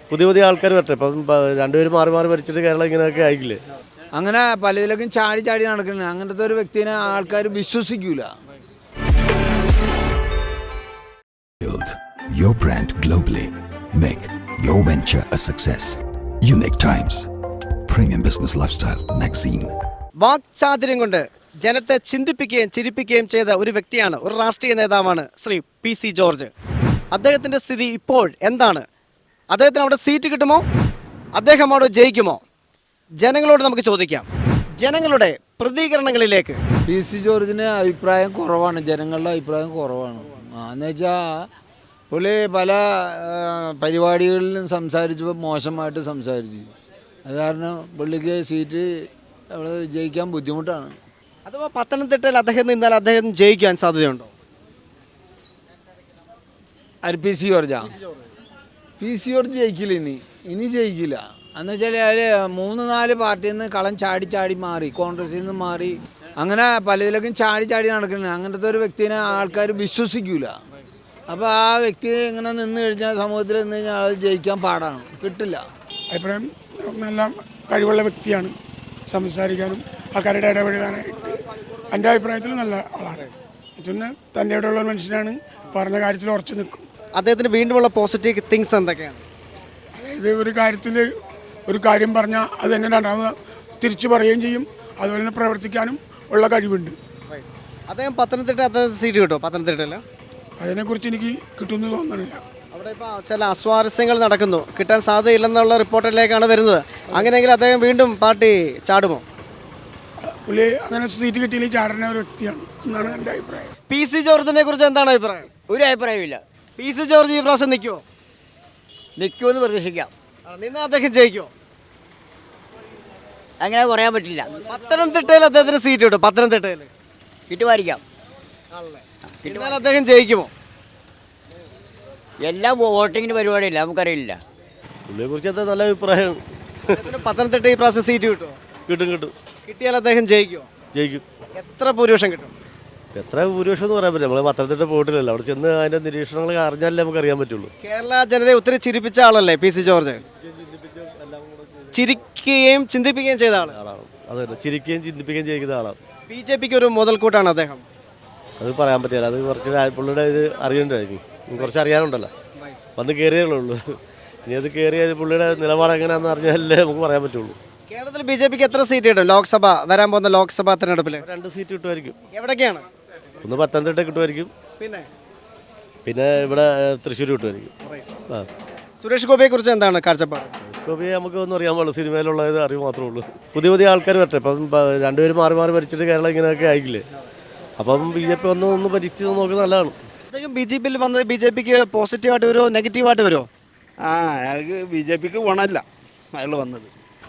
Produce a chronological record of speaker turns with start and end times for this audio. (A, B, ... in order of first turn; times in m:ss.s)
0:00.1-0:03.6 A
0:04.2-0:08.3 B
0:11.6-0:17.3 C
0:17.9-0:19.7 C
0:20.2-0:26.5 D
0:27.1-0:28.8 D
0:29.5-0:30.6 D
0:31.3-0:32.4 D
0:33.2-0:34.3 D
0:34.8-0:36.6 D
0:36.9-0:41.2 B
0:42.1-0:46.7 B
0:47.2-0:48.9 B
0:49.5-0:51.0 B
0:51.4-0:54.3 D
0:57.0-0:57.9 B
0:59.0-1:10.5 B
1:11.3-1:15.6 B
1:16.2-1:18.5 E
1:19.1-1:21.4 E
1:21.9-1:23.1 E
1:23.8-1:26.8 E
1:27.2-1:29.2 D
1:30.0-1:31.0 E
1:31.7-1:33.3 E
1:33.8-1:36.9 E
1:37.3-1:40.0 D
1:40.6-1:42.4 E
1:42.7-1:49.2 D
1:50.5-1:53.7 E
1:53.9-1:55.6 D
1:55.7-1:56.4 F
1:56.8-1:58.0 D
1:59.2-2:00.1 F
2:00.4-2:01.5 D
2:03.6-2:04.5 F
2:04.6-2:06.9 D
2:07.5-2:08.0 F
2:08.7-2:10.5 D
2:12.4-2:14.4 F
2:15.1-2:16.9 A
2:16.9-2:18.6 D
2:18.8-2:19.3 A
2:19.6-2:20.7 D
2:20.9-2:21.2 A
2:21.5-2:22.5 D
2:23.1-2:27.7 A
2:27.8-2:30.2 D
2:30.4-2:31.8 A
2:31.9-2:33.8 D
2:33.7-2:36.0 A
2:36.3-2:37.8 D
2:38.6-2:42.3 A
2:43.0-2:47.6 A
2:47.9-2:51.2 D
2:51.2-2:52.2 A
2:52.3-2:52.9 D
2:53.4-2:54.5 A
2:54.8-2:55.1 D
2:56.0-2:57.7 A
2:57.8-2:58.1 D
2:59.0-3:00.5 D
3:00.6-3:07.0 A
3:07.8-3:10.0 A
3:10.3-3:13.5 D
3:14.0-3:16.9 G